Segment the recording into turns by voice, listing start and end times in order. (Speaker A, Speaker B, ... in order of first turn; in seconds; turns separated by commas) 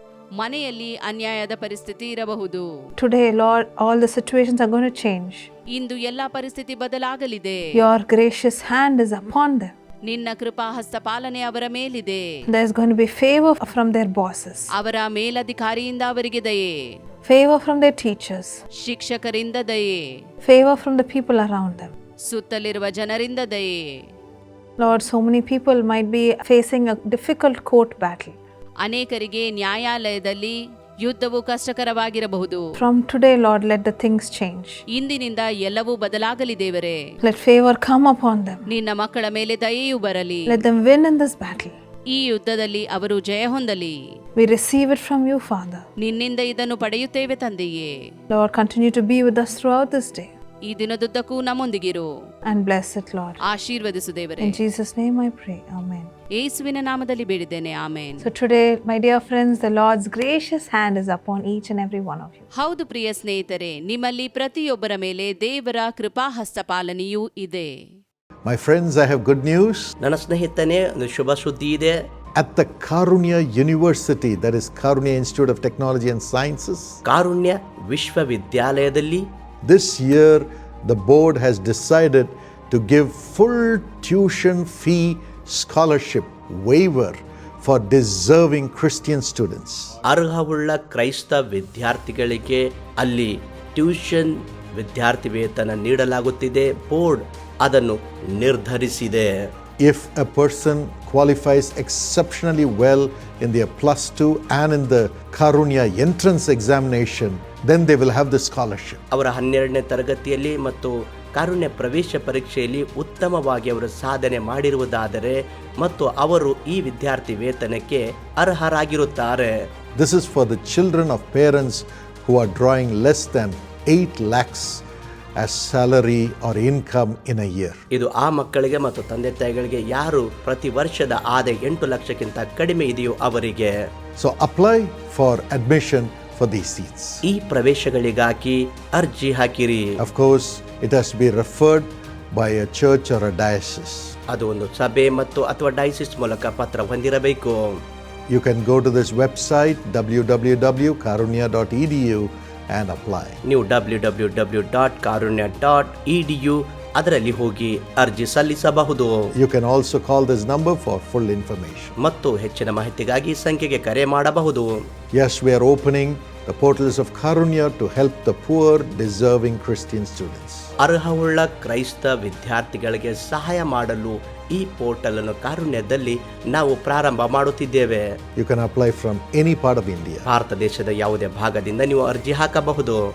Speaker A: 0.3-2.7, Speaker B: 3.0-5.5, Speaker A: 5.7-7.7, Speaker B: 7.7-9.7, Speaker A: 10.1-12.4, Speaker B: 12.5-14.7, Speaker A: 14.7-17.0, Speaker B: 17.2-18.6, Speaker A: 18.8-20.1, Speaker B: 20.4-21.9, Speaker A: 22.2-24.1, Speaker B: 24.8-28.4, Speaker A: 28.8-32.7, Speaker B: 32.8-34.8, Speaker A: 34.9-37.0, Speaker B: 37.2-38.7, Speaker A: 38.7-40.6, Speaker B: 40.5-41.7, Speaker A: 42.1-44.0, Speaker B: 44.4-45.8, Speaker A: 46.0-48.0, Speaker B: 48.3-50.3, Speaker A: 50.6-52.1, Speaker B: 52.5-53.4, Speaker A: 53.5-54.6, Speaker B: 54.4-56.1, Speaker A: 56.4-58.3, Speaker B: 58.2-62.5, Speaker A: 62.5-67.9, Speaker C: 68.4-69.9, Speaker D: 70.0-72.0, Speaker C: 72.3-77.0, Speaker D: 77.0-79.3, Speaker C: 79.6-90.0, Speaker D: 90.0-99.5, Speaker C: 99.8-109.0, Speaker D: 109.1-119.5, Speaker C: 119.9-124.8, Speaker C: 125.4-127.8, Speaker D: 127.9-133.9, Speaker C: 134.2-137.2, Speaker D: 137.2-140.0, Speaker C: 140.0-144.2, Speaker D: 144.3-147.8, Speaker C: 148.3-153.4, Speaker D: 153.4-159.3, Speaker C: 159.3-161.9, Speaker D: 162.0-164.9, Speaker C: 165.1-170.7, Speaker D: 170.8-178.2, Speaker C: 178.3-180.3, Speaker D: 180.2-183.0